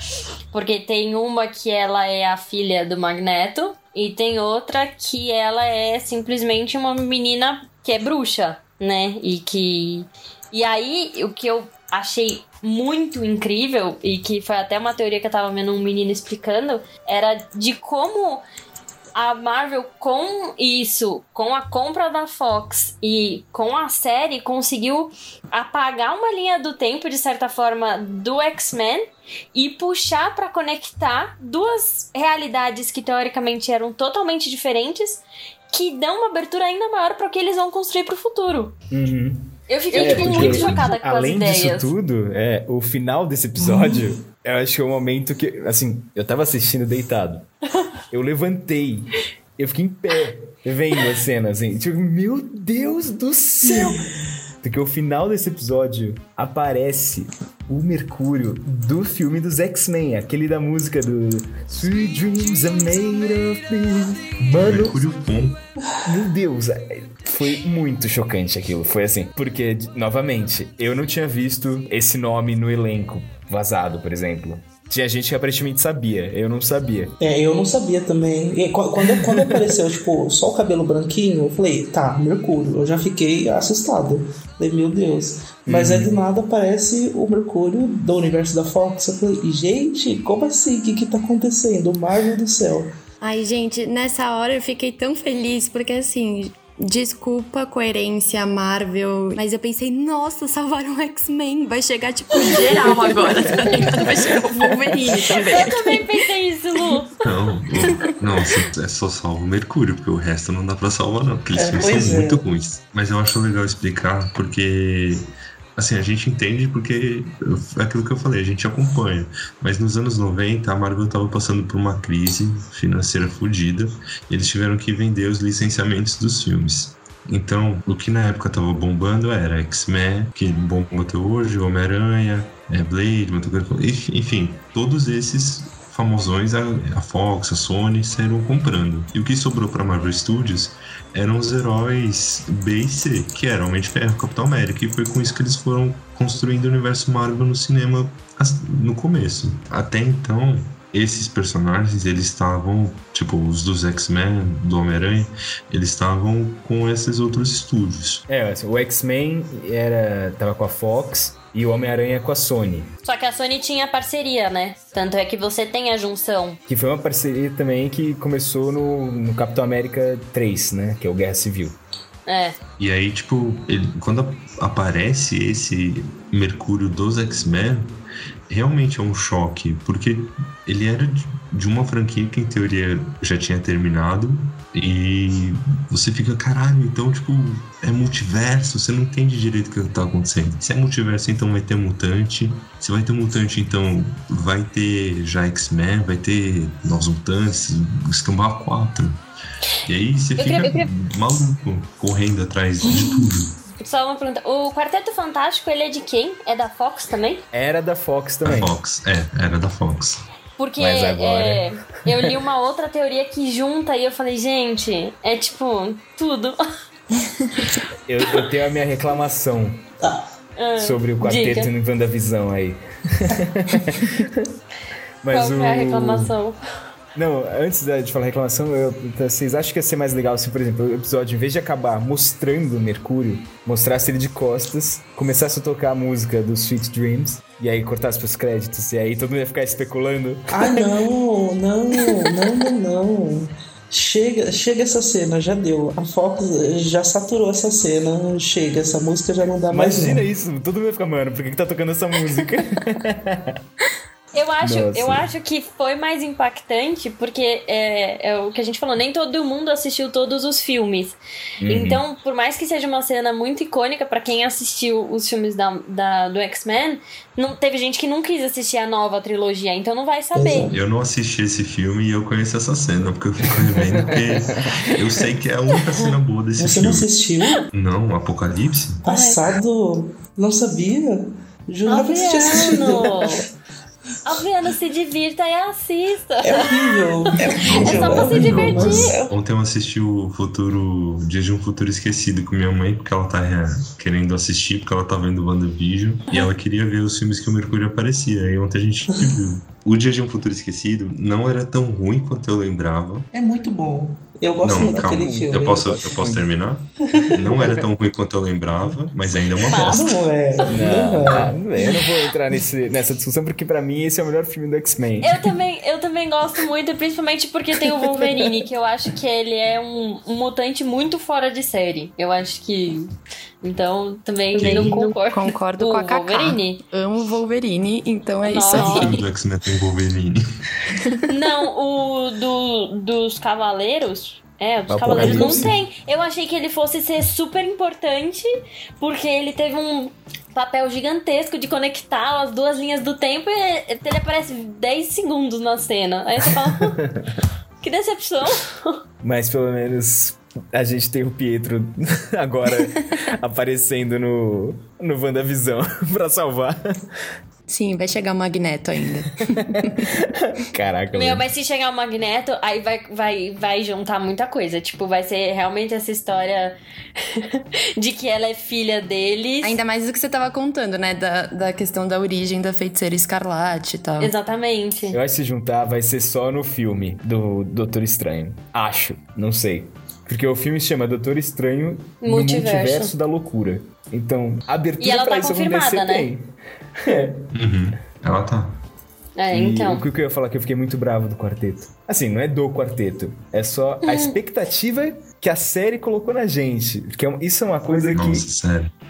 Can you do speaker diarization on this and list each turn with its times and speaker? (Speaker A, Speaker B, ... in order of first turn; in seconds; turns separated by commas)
Speaker A: 0.5-18.4, Speaker A: 19.1-38.8, Speaker B: 38.9-47.5, Speaker A: 39.7-41.9, Speaker C: 40.1-40.5, Speaker D: 40.2-40.7, Speaker C: 43.6-44.0, Speaker B: 48.1-54.0, Speaker C: 53.6-54.1, Speaker B: 54.6-65.0, Speaker D: 64.5-65.6, Speaker B: 66.0-77.1, Speaker C: 77.2-92.9, Speaker B: 79.1-79.7, Speaker B: 85.7-86.1, Speaker E: 93.2-106.1, Speaker A: 102.4-104.0, Speaker A: 105.2-107.1, Speaker D: 107.2-158.2, Speaker E: 107.8-108.1, Speaker C: 111.5-112.4, Speaker B: 158.3-162.9, Speaker A: 163.0-166.6, Speaker B: 166.7-171.8, Speaker A: 172.3-172.6, Speaker D: 172.8-178.0, Speaker D: 178.5-199.2, Speaker D: 199.9-203.6, Speaker A: 200.4-200.9, Speaker A: 203.8-207.4, Speaker B: 207.5-208.7, Speaker D: 208.4-210.2, Speaker A: 210.6-216.6, Speaker B: 210.8-211.7, Speaker B: 218.1-219.8, Speaker A: 220.6-221.7, Speaker B: 220.8-224.5, Speaker B: 225.2-226.3, Speaker A: 225.3-226.6, Speaker B: 227.2-240.9, Speaker C: 240.5-250.2, Speaker B: 249.7-253.5, Speaker A: 254.3-270.7, Speaker B: 254.6-255.3, Speaker B: 261.6-262.0, Speaker C: 270.4-270.8, Speaker D: 270.7-277.1, Speaker C: 276.6-277.7, Speaker D: 277.7-279.0, Speaker C: 279.1-283.4, Speaker A: 279.1-279.4, Speaker A: 281.9-283.5, Speaker A: 284.2-289.2, Speaker C: 286.4-289.4, Speaker D: 287.6-303.3, Speaker C: 303.3-306.0, Speaker D: 304.6-310.2, Speaker B: 304.8-306.4, Speaker C: 307.1-307.8, Speaker A: 309.7-310.7, Speaker C: 309.8-311.6, Speaker B: 310.7-315.4, Speaker A: 315.2-323.1, Speaker B: 318.2-318.5, Speaker A: 323.6-326.8, Speaker E: 324.6-329.2, Speaker D: 324.6-325.0, Speaker A: 328.5-329.2, Speaker D: 328.7-330.4, Speaker E: 331.0-331.2, Speaker A: 331.3-338.5, Speaker B: 334.9-335.8, Speaker C: 335.1-335.7, Speaker A: 339.0-347.0, Speaker B: 347.0-347.3, Speaker A: 347.8-349.0, Speaker B: 349.2-357.0, Speaker E: 357.7-360.1, Speaker B: 359.6-361.5, Speaker A: 361.1-369.8, Speaker E: 369.6-374.3, Speaker A: 374.2-375.2, Speaker B: 375.1-387.4, Speaker A: 382.2-383.1, Speaker A: 385.0-386.3, Speaker D: 387.5-388.8, Speaker A: 389.4-390.1, Speaker B: 389.5-398.5, Speaker A: 394.1-394.4, Speaker D: 398.1-398.9